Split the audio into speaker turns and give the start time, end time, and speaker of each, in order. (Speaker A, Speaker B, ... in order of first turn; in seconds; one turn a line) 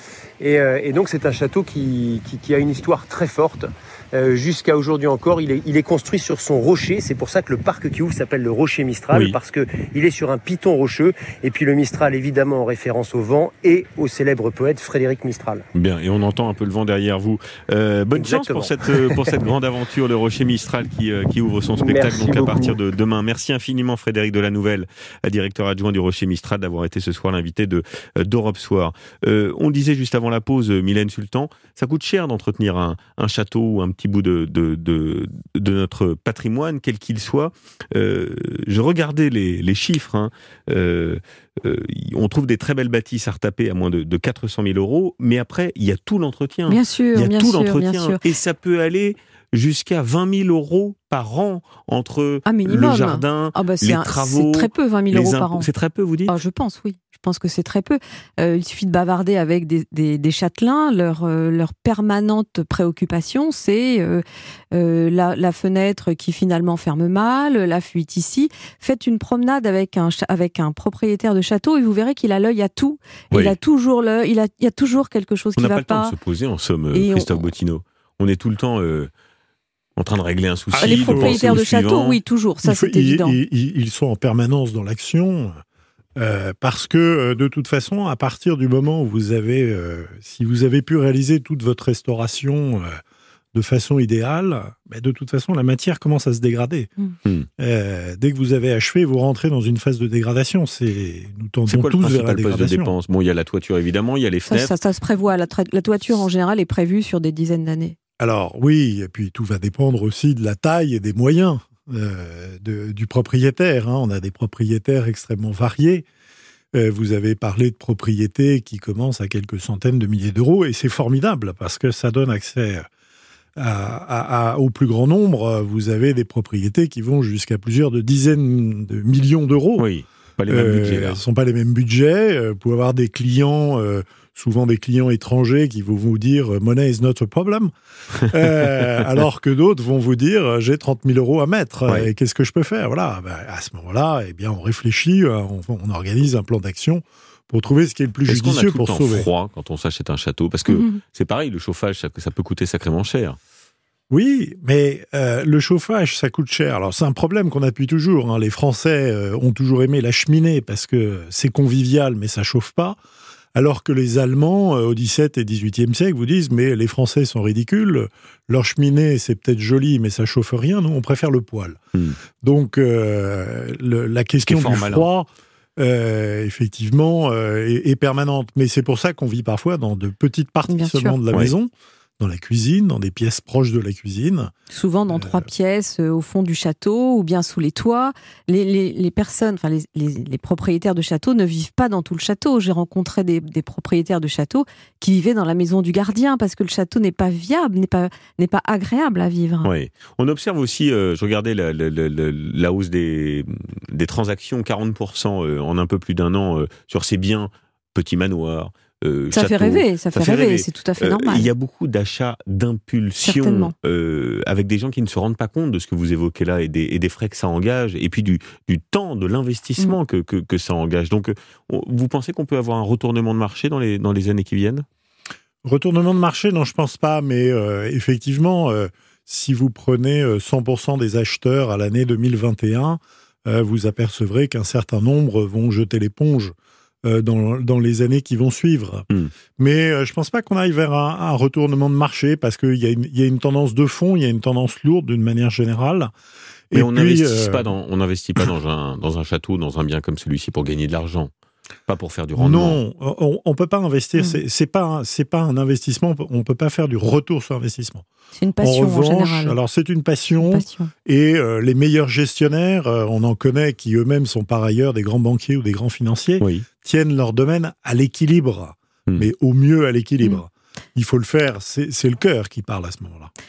Speaker A: 0.4-15.7
Speaker B: 15.7-56.4
Speaker A: 18.1-19.4
Speaker A: 21.8-22.8
Speaker C: 46.7-48.2
Speaker C: 52.5-55.7
Speaker C: 56.3-76.1
Speaker B: 75.6-79.1
Speaker C: 76.9-77.4
Speaker B: 80.0-82.2
Speaker D: 80.7-81.6
Speaker C: 80.8-83.4
Speaker D: 82.6-85.6
Speaker D: 86.2-93.0
Speaker D: 93.5-96.9
Speaker D: 97.6-102.9
Speaker B: 101.7-104.7
Speaker C: 104.5-108.0
Speaker D: 108.2-116.1
Speaker D: 116.7-122.9
Speaker D: 123.6-129.9
Speaker B: 129.8-131.2
Speaker D: 130.5-149.3
Speaker B: 148.3-153.4
Speaker C: 150.7-151.0
Speaker D: 154.1-163.0
Speaker D: 163.6-171.8
Speaker D: 172.4-184.5
Speaker B: 174.5-175.1
Speaker C: 180.7-181.2
Speaker C: 184.7-199.7
Speaker D: 185.1-185.5
Speaker B: 199.6-224.8
Speaker C: 209.3-211.5
Speaker C: 213.2-213.7
Speaker D: 225.6-239.1
Speaker D: 239.6-246.1
Speaker D: 246.7-247.7
Speaker B: 246.7-251.3
Speaker B: 251.9-252.8
Speaker D: 252.4-258.0
Speaker C: 258.4-259.6
Speaker D: 258.6-273.3
Speaker C: 260.4-260.9
Speaker B: 266.4-266.7